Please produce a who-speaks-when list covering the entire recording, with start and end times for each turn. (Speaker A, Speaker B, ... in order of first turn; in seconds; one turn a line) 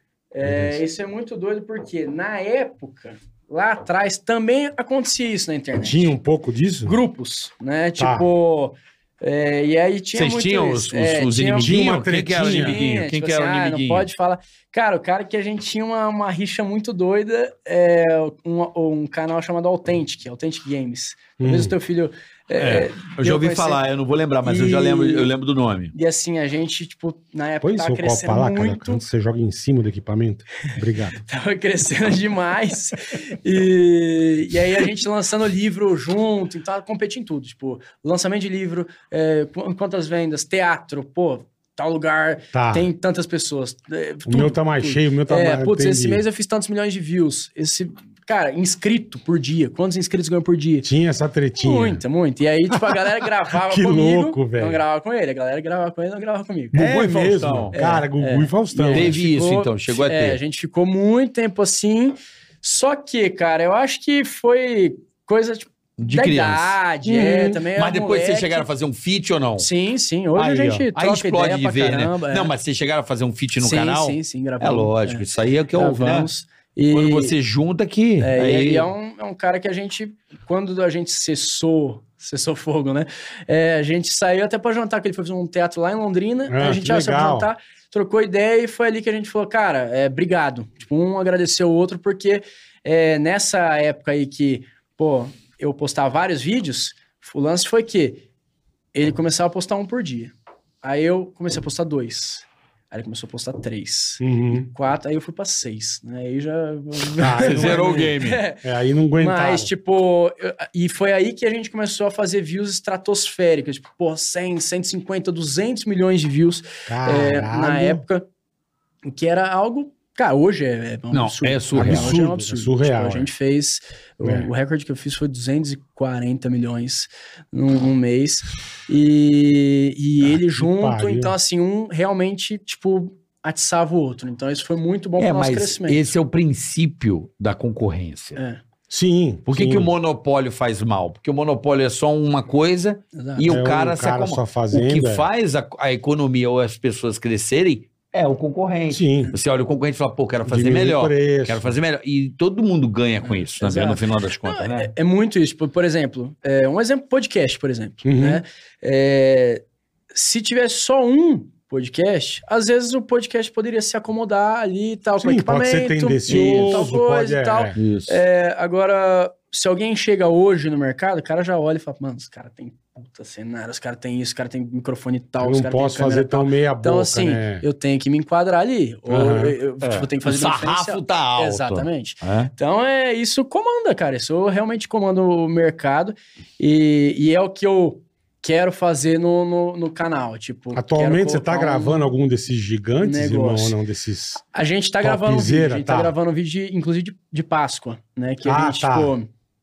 Speaker A: 0.3-6.1
Speaker B: 0.4-0.8
Speaker B: 5.8-7.0
Speaker A: 6.8-23.8
Speaker B: 8.0-8.3
Speaker C: 10.2-14.1
Speaker B: 11.6-12.8
Speaker B: 21.4-21.7
Speaker C: 22.6-25.9
Speaker A: 24.4-25.3
Speaker A: 25.9-29.1
Speaker B: 27.6-31.2
Speaker A: 31.2-50.9
Speaker B: 42.5-42.9
Speaker B: 44.3-46.2
Speaker B: 50.8-52.0
Speaker A: 51.6-57.0
Speaker B: 52.7-53.0
Speaker B: 53.5-54.8
Speaker B: 56.7-59.2
Speaker C: 56.7-57.8
Speaker A: 57.7-68.7
Speaker C: 58.9-60.4
Speaker C: 66.0-69.7
Speaker B: 67.1-67.6
Speaker A: 69.6-72.5
Speaker C: 70.4-76.3
Speaker A: 73.6-75.2
Speaker A: 75.8-77.3
Speaker C: 76.9-78.9
Speaker A: 78.2-98.2
Speaker B: 86.5-87.5
Speaker A: 98.9-100.3
Speaker A: 100.8-108.6
Speaker B: 104.2-104.7
Speaker B: 107.2-109.7
Speaker C: 107.4-108.4
Speaker A: 109.2-118.3
Speaker B: 116.9-118.0
Speaker A: 119.0-136.1
Speaker C: 121.1-122.2
Speaker B: 121.7-123.3
Speaker B: 130.2-131.3
Speaker C: 135.2-138.4
Speaker A: 138.4-138.6
Speaker B: 138.9-139.9
Speaker C: 139.5-154.9
Speaker A: 143.1-143.5
Speaker B: 143.4-145.3
Speaker B: 148.9-149.3
Speaker B: 150.5-151.8
Speaker A: 153.2-192.1
Speaker B: 158.0-158.4
Speaker B: 165.2-167.8
Speaker C: 166.3-166.8
Speaker C: 167.8-168.2
Speaker B: 175.4-177.6
Speaker B: 179.1-179.6
Speaker C: 179.8-182.5
Speaker B: 190.8-194.4
Speaker A: 193.0-193.8
Speaker A: 194.5-199.3
Speaker B: 195.0-196.1
Speaker B: 198.4-199.1